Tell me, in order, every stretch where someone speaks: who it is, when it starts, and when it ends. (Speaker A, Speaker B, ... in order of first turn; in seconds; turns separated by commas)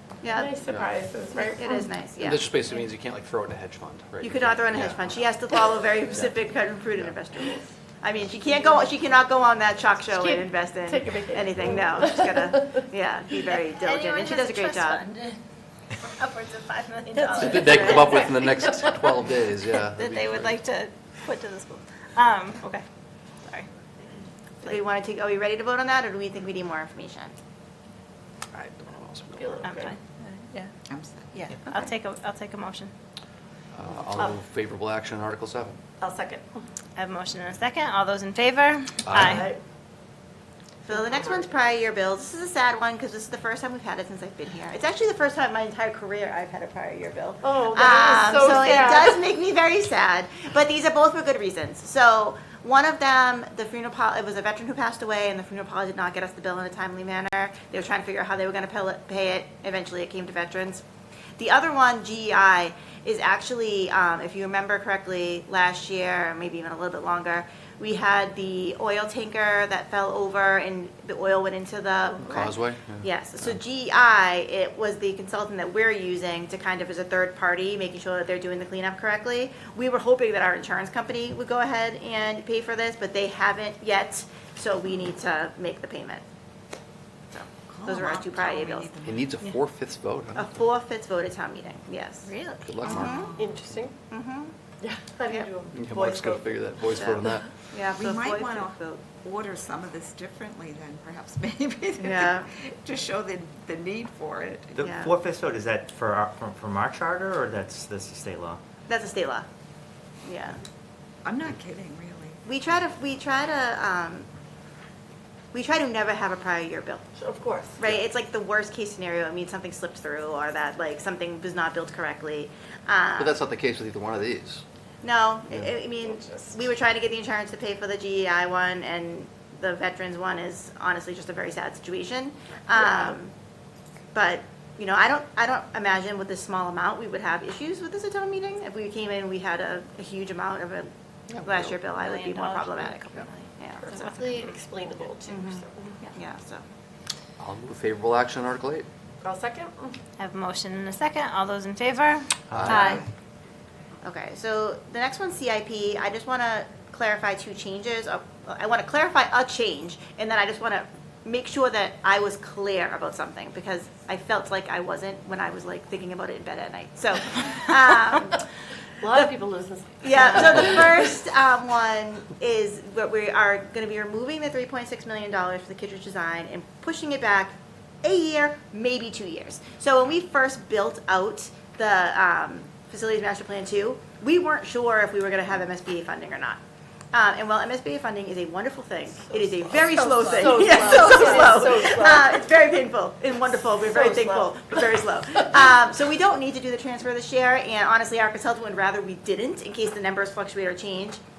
Speaker A: 0.2-0.6, Speaker B: 0.3-1.7, Speaker A: 1.4-2.5, Speaker C: 2.2-5.2, Speaker A: 4.2-15.0, Speaker B: 10.1-12.8, Speaker D: 13.8-15.4, Speaker D: 16.0-18.1, Speaker B: 17.2-18.7, Speaker C: 17.4-20.6, Speaker D: 19.9-22.8, Speaker A: 24.6-27.4, Speaker C: 28.5-29.6, Speaker B: 29.3-30.0, Speaker D: 29.6-30.7, Speaker E: 30.9-31.4, Speaker D: 31.4-32.9, Speaker C: 33.7-35.8, Speaker B: 36.0-36.6, Speaker D: 37.0-39.5, Speaker C: 39.0-39.4, Speaker B: 39.1-39.6, Speaker A: 40.9-60.8, Speaker B: 40.9-41.5, Speaker B: 47.4-49.2, Speaker A: 61.4-86.2, Speaker C: 72.2-73.1, Speaker A: 87.3-88.9, Speaker E: 87.7-89.3, Speaker C: 89.0-90.6, Speaker A: 90.3-93.3, Speaker D: 92.2-92.8, Speaker C: 92.6-93.3, Speaker E: 92.8-93.6, Speaker B: 93.3-93.9, Speaker A: 94.1-94.5, Speaker B: 94.8-96.4, Speaker A: 95.2-95.5, Speaker C: 95.7-97.5, Speaker A: 96.9-98.9, Speaker E: 97.9-104.9, Speaker A: 102.0-102.5, Speaker F: 104.8-108.6, Speaker A: 104.8-105.1, Speaker A: 108.9-109.5, Speaker A: 110.2-110.6, Speaker E: 111.2-112.4, Speaker A: 112.4-114.3, Speaker A: 115.5-117.0, Speaker B: 117.2-117.8, Speaker A: 117.8-123.4, Speaker C: 123.2-124.6, Speaker A: 125.0-133.3, Speaker B: 126.0-126.5, Speaker A: 134.1-140.9, Speaker C: 141.3-141.6, Speaker A: 141.4-144.1, Speaker D: 141.9-144.6, Speaker B: 143.8-146.0, Speaker A: 145.3-146.6, Speaker C: 147.4-148.9, Speaker B: 149.2-150.0, Speaker D: 150.2-153.1, Speaker C: 152.5-152.8, Speaker F: 152.6-152.9, Speaker A: 154.0-168.4, Speaker B: 169.0-171.1, Speaker A: 170.0-186.6, Speaker A: 187.1-201.2, Speaker B: 189.3-192.4, Speaker B: 193.8-194.8